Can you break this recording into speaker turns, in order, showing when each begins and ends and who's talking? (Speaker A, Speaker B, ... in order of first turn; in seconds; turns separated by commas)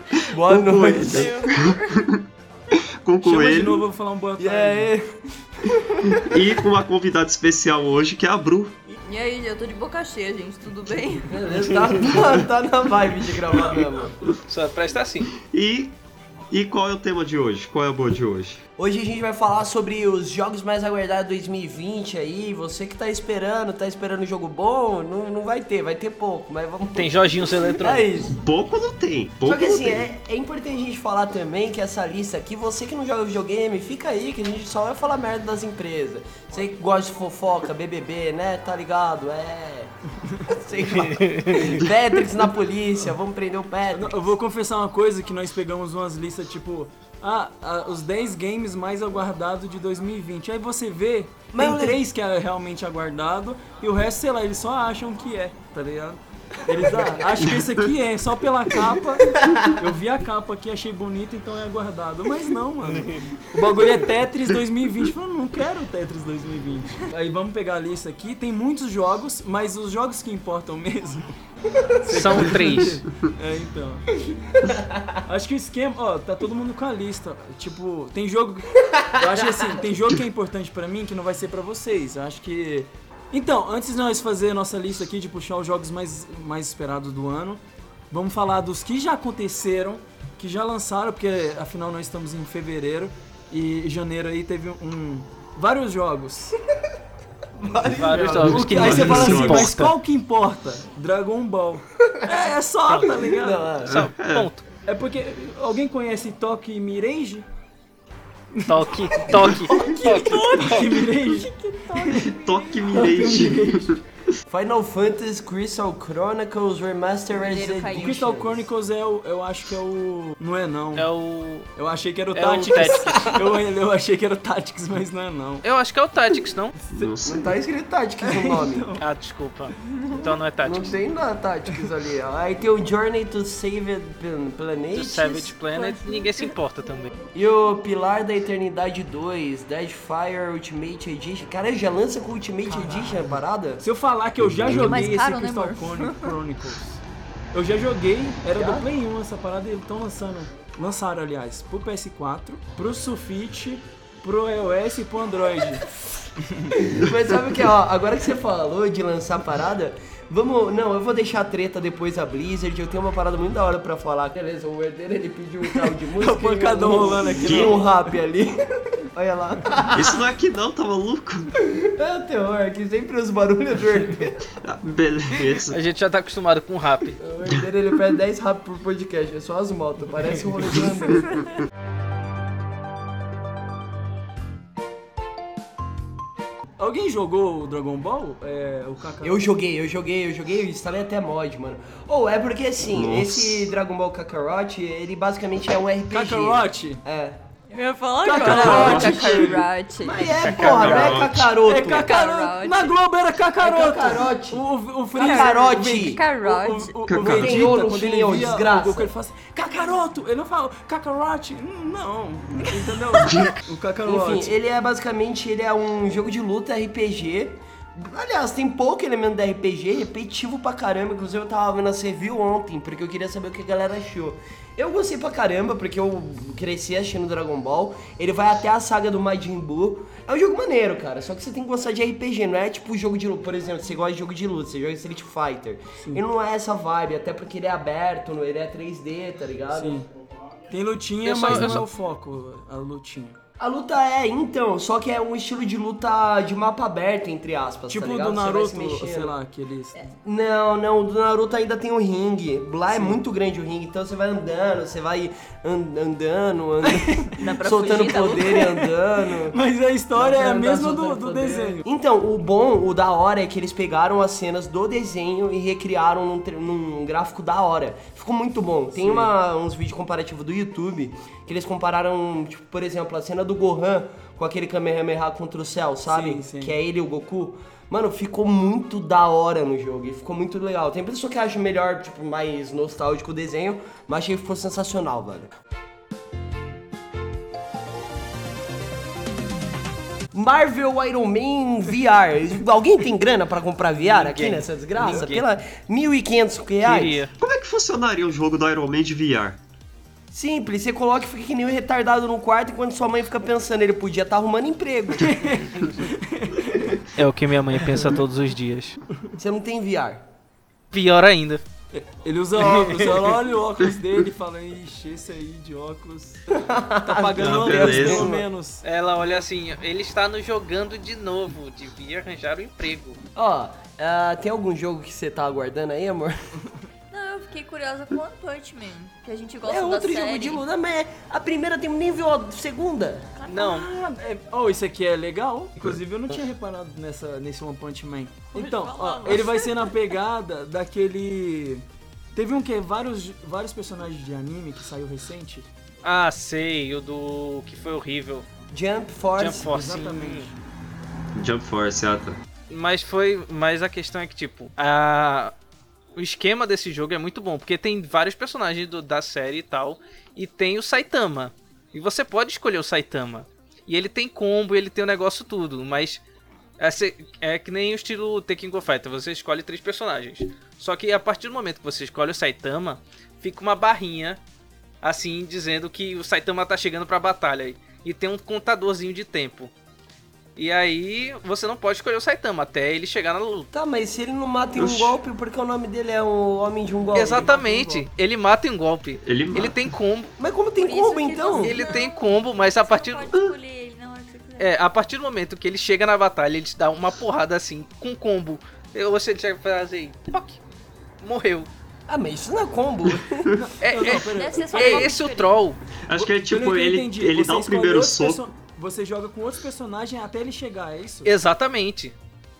Speaker A: 0.3-1.5, Speaker B: 0.5-1.3, Speaker C: 0.8-2.0, Speaker D: 1.5-2.3, Speaker D: 2.8-3.9, Speaker B: 3.2-4.9, Speaker A: 4.4-6.4, Speaker D: 6.2-8.8, Speaker C: 8.9-11.4, Speaker A: 11.3-14.2, Speaker E: 14.5-15.3, Speaker D: 15.4-16.0, Speaker D: 16.5-18.6, Speaker A: 18.8-28.4, Speaker E: 26.9-28.3, Speaker D: 28.4-30.1, Speaker A: 29.4-39.9, Speaker A: 40.5-44.2, Speaker E: 40.9-41.8, Speaker B: 43.9-71.3, Speaker A: 51.5-52.0, Speaker A: 56.7-57.3, Speaker A: 59.2-59.7, Speaker B: 72.0-74.5, Speaker E: 72.1-73.0, Speaker A: 74.8-75.1, Speaker B: 75.2-96.6, Speaker A: 78.9-79.7, Speaker A: 97.6-99.1, Speaker B: 97.6-103.7, Speaker E: 97.9-99.9, Speaker D: 98.6-99.8, Speaker E: 102.9-103.2, Speaker A: 103.2-104.0, Speaker D: 103.8-104.5, Speaker E: 103.8-104.7, Speaker B: 104.9-107.5, Speaker B: 108.5-112.3, Speaker E: 108.7-110.9, Speaker C: 109.9-113.5, Speaker D: 112.2-114.0, Speaker B: 112.9-114.0, Speaker A: 114.5-118.7, Speaker C: 117.4-118.4, Speaker B: 118.0-121.1, Speaker E: 121.0-121.7, Speaker B: 121.8-125.6, Speaker E: 122.3-123.3, Speaker A: 123.1-123.4, Speaker E: 125.6-126.8, Speaker B: 126.8-127.2, Speaker D: 126.9-127.5, Speaker A: 127.2-128.9, Speaker B: 128.2-129.1, Speaker E: 129.0-131.0, Speaker A: 130.6-135.6, Speaker E: 134.9-137.1, Speaker C: 135.7-136.5, Speaker A: 137.3-143.8, Speaker B: 142.8-156.9, Speaker D: 144.5-144.9, Speaker C: 144.8-146.3, Speaker A: 148.6-148.9, Speaker A: 156.8-170.2, Speaker B: 165.7-167.9, Speaker D: 167.4-167.8, Speaker D: 169.9-171.5, Speaker A: 171.6-174.4, Speaker D: 174.6-175.8, Speaker E: 175.5-177.2, Speaker A: 177.2-181.4, Speaker B: 186.8-189.5, Speaker A: 189.2-197.4, Speaker D: 192.8-193.7, Speaker B: 196.1-197.0, Speaker C: 197.7-200.4, Speaker B: 198.2-199.6, Speaker D: 198.4-199.6, Speaker A: 198.8-199.0, Speaker A: 200.0-202.1, Speaker E: 200.4-201.2, Speaker D: 200.4-201.5, Speaker B: 201.4-214.6, Speaker C: 201.9-202.9, Speaker A: 203.6-204.6, Speaker A: 205.2-206.2, Speaker C: 205.2-207.0, Speaker D: 207.1-207.7, Speaker A: 207.2-209.1, Speaker D: 213.2-213.6, Speaker A: 214.1-240.0, Speaker B: 236.0-236.2, Speaker B: 239.7-240.1, Speaker B: 240.7-243.4, Speaker E: 241.2-241.8, Speaker A: 243.6-249.3, Speaker B: 247.9-250.1, Speaker A: 250.0-259.6, Speaker B: 252.9-253.2, Speaker B: 256.9-257.3, Speaker C: 257.4-258.8, Speaker B: 258.5-261.8, Speaker A: 260.1-285.5, Speaker B: 268.9-269.3, Speaker B: 276.1-276.8, Speaker A: 290.3-297.2, Speaker E: 294.1-295.4, Speaker E: 296.8-297.3, Speaker D: 297.4-299.6, Speaker A: 300.3-305.5, Speaker B: 305.2-307.0, Speaker E: 307.1-309.0, Speaker A: 309.4-310.2, Speaker E: 310.9-311.6, Speaker B: 311.9-316.5, Speaker E: 312.6-313.3, Speaker A: 316.5-318.5, Speaker B: 317.1-318.8, Speaker D: 317.4-318.3, Speaker E: 318.8-323.2, Speaker A: 323.4-326.4, Speaker C: 327.1-330.6, Speaker A: 329.6-333.3, Speaker E: 333.5-333.9, Speaker B: 333.5-345.7, Speaker C: 338.5-340.0, Speaker E: 346.0-348.5, Speaker A: 348.7-349.8, Speaker E: 349.4-350.5, Speaker B: 349.7-350.6, Speaker D: 351.4-352.4, Speaker E: 352.7-355.6, Speaker E: 356.2-366.2, Speaker E: 366.8-374.4, Speaker E: 375.0-379.7, Speaker E: 380.6-383.7, Speaker A: 383.7-387.6, Speaker D: 384.8-385.2, Speaker B: 387.1-388.1, Speaker E: 387.1-390.3, Speaker D: 389.2-389.9, Speaker A: 390.4-391.9, Speaker C: 390.8-394.8, Speaker E: 391.5-393.3, Speaker E: 394.6-400.6, Speaker E: 401.2-401.7, Speaker A: 402.1-403.6, Speaker B: 403.5-405.1, Speaker E: 403.8-405.8, Speaker C: 404.1-405.6, Speaker D: 406.1-408.4, Speaker B: 406.1-411.3, Speaker E: 411.2-412.1